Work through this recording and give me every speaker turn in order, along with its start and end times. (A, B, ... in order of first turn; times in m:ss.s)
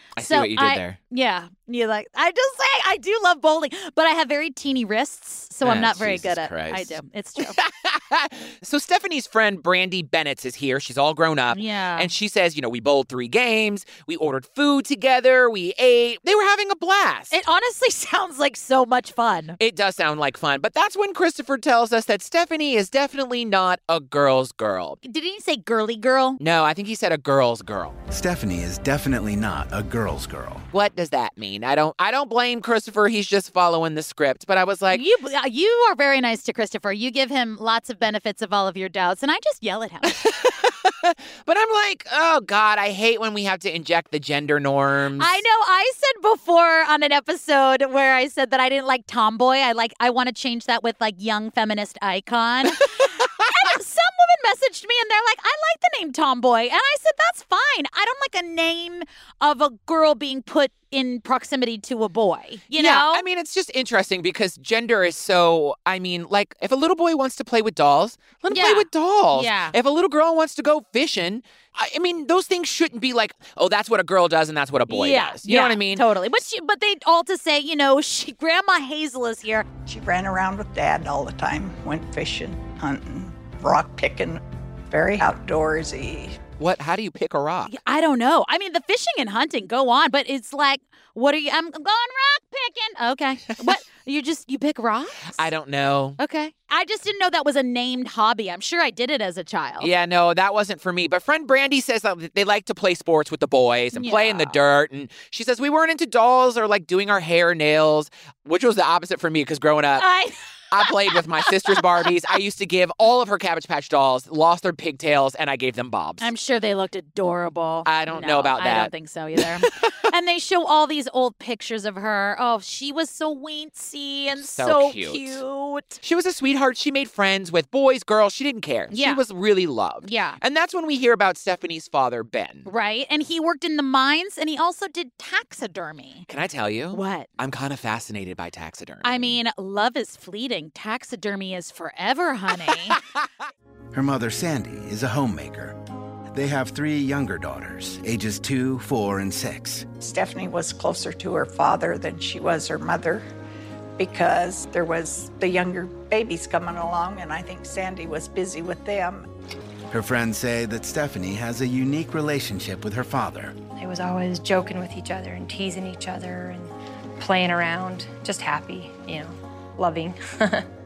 0:00.2-0:01.0 A
0:00.2-0:07.6 B
0:05.6-0:17.3 A
0:11.5-0:12.1 B
0:17.3-0:19.6 B
0:19.6-0:25.0 A
0:25.0-0:26.4 B
0:26.4-0:28.0 A
0:28.1-0:30.6 C
0:30.7-0:35.0 A
0:34.9-0:40.2 B
0:40.0-0:45.4 A
0:45.2-1:03.2 B
1:02.7-1:16.0 A
1:08.5-1:09.8 B
1:14.9-1:19.7 B
1:19.9-1:26.4 D
1:26.6-1:27.7 A
1:27.7-1:35.4 B
1:35.4-1:36.2 A
1:36.2-1:39.9 B
1:39.8-1:50.1 A
1:43.9-1:44.6 B
1:50.0-1:52.1 B
1:50.7-1:56.3 A
1:56.2-2:06.0 B
1:57.9-2:00.1 A
2:04.4-2:05.4 A
2:06.0-2:12.7 A
2:08.9-2:09.2 B
2:10.0-2:10.4 B
2:12.6-2:16.3 B
2:16.3-2:19.4 A
2:16.9-2:17.3 B
2:19.0-2:23.0 B
2:22.9-2:23.2 A
2:23.9-2:25.8 C
2:26.3-2:29.9 C
2:30.0-2:33.2 D
2:34.0-2:39.3 D
2:39.9-2:43.6 C
2:43.8-2:50.7 E